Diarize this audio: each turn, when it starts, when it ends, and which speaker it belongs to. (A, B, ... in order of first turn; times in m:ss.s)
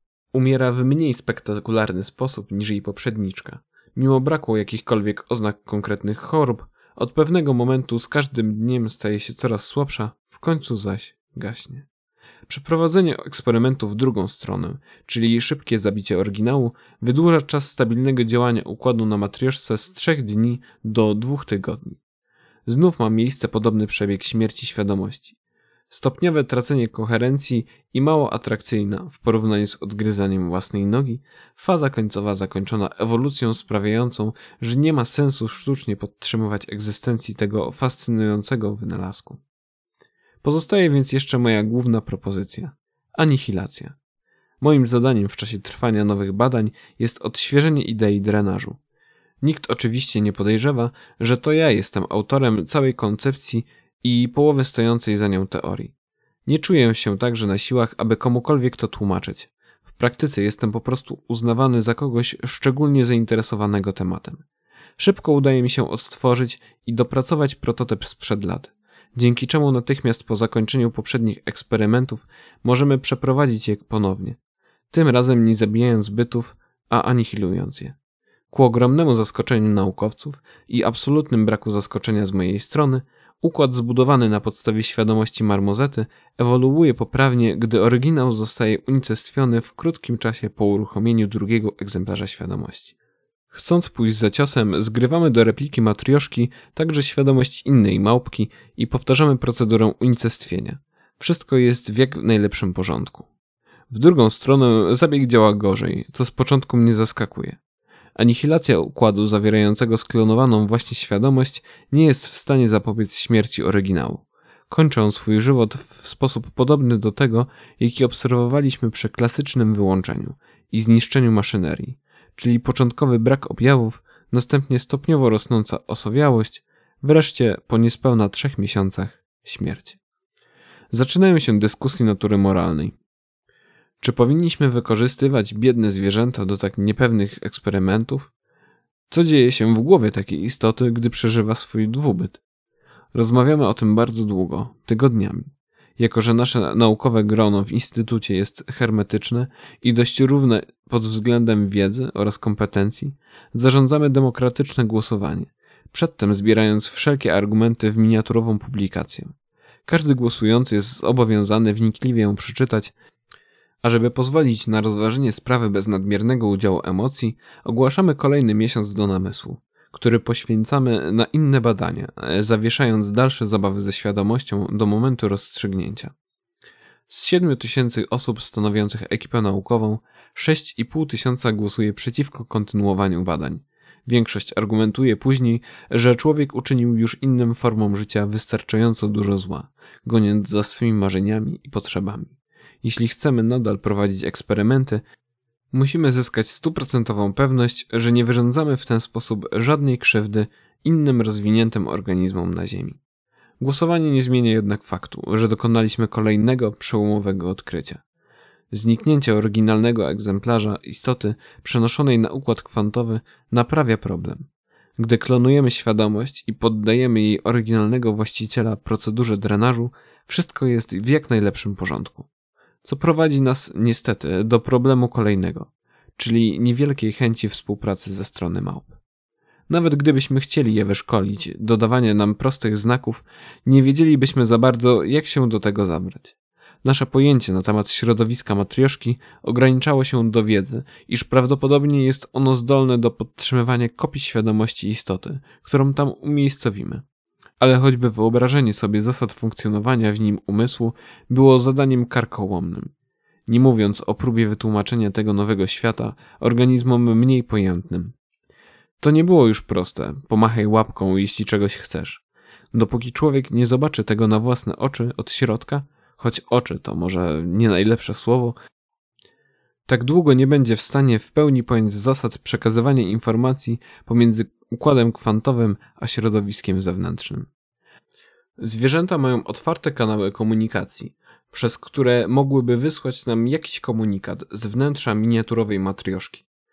0:00.3-0:11.8 A
0:12.5-0:22.0 A
0:22.6-0:25.4 A
0:25.9-0:39.4 A
0:40.4-0:43.9 A
0:44.6-0:48.8 A
0:49.4-0:55.9 A
0:56.4-1:04.4 A
1:05.0-1:14.4 A
1:14.9-1:18.0 A
1:18.5-1:32.9 A
1:33.5-1:43.3 A
1:43.9-1:47.6 A
1:48.2-2:10.0 A
2:10.9-2:13.0 A
2:14.0-2:18.3 A
2:19.1-2:22.4 A
2:23.1-2:39.3 A
2:39.8-2:42.9 A
2:43.8-2:56.1 A
2:57.1-3:15.0 A
3:15.7-3:23.0 A
3:23.6-3:28.0 A
3:28.7-3:42.3 A
3:42.8-3:49.0 A
3:49.7-4:07.0 A
4:07.6-4:12.9 A
4:13.5-4:18.1 A
4:19.0-4:22.2 A
4:22.7-4:28.6 A
4:29.9-4:37.5 A
4:38.6-4:46.4 A